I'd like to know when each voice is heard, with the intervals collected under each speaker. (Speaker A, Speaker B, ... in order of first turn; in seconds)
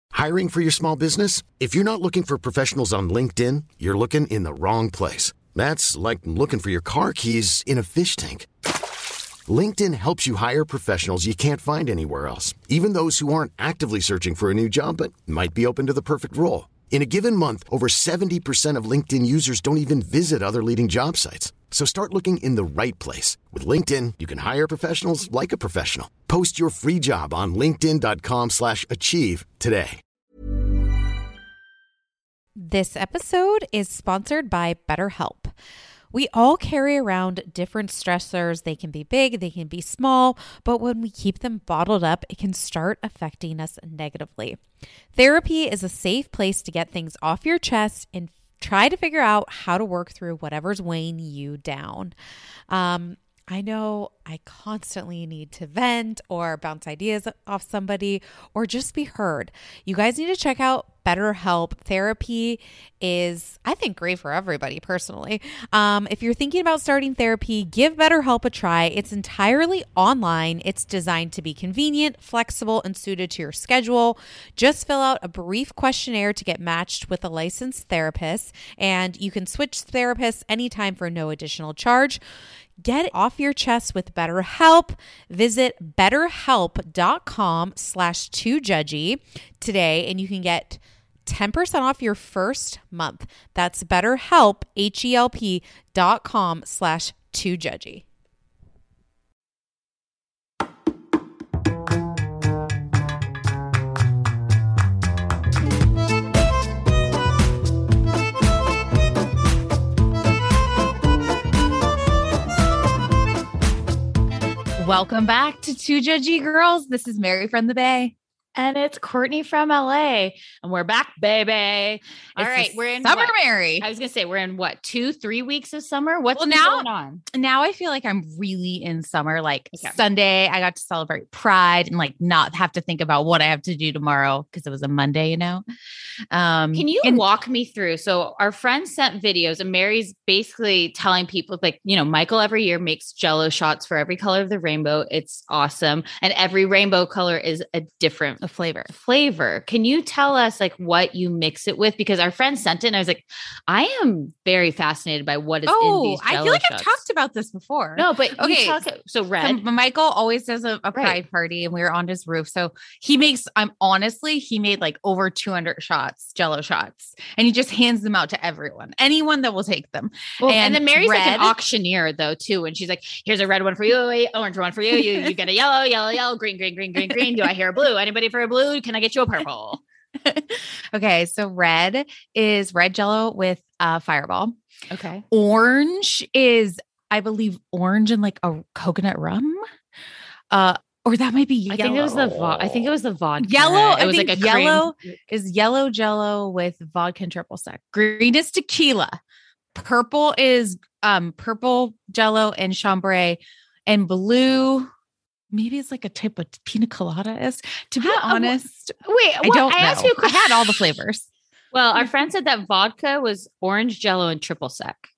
Speaker A: 0.1-8.5, 9.5-30.0
Speaker B: 32.6-35.5, 36.1-44.6, 45.1-52.1, 52.7-82.2, 82.8-98.0, 114.8-118.1, 122.4-123.8, 126.4-135.6, 136.3-137.2, 148.4-148.9, 155.7-158.8, 159.4-171.5, 180.2-184.5, 185.3-189.6, 190.5-199.2, 199.7-204.9, 205.5-211.3
Speaker C: 118.5-127.2, 136.7-157.0, 158.0-159.6, 160.9-161.2, 170.4-179.8, 184.9-185.2, 191.7-195.1, 208.0-210.8, 211.7-215.1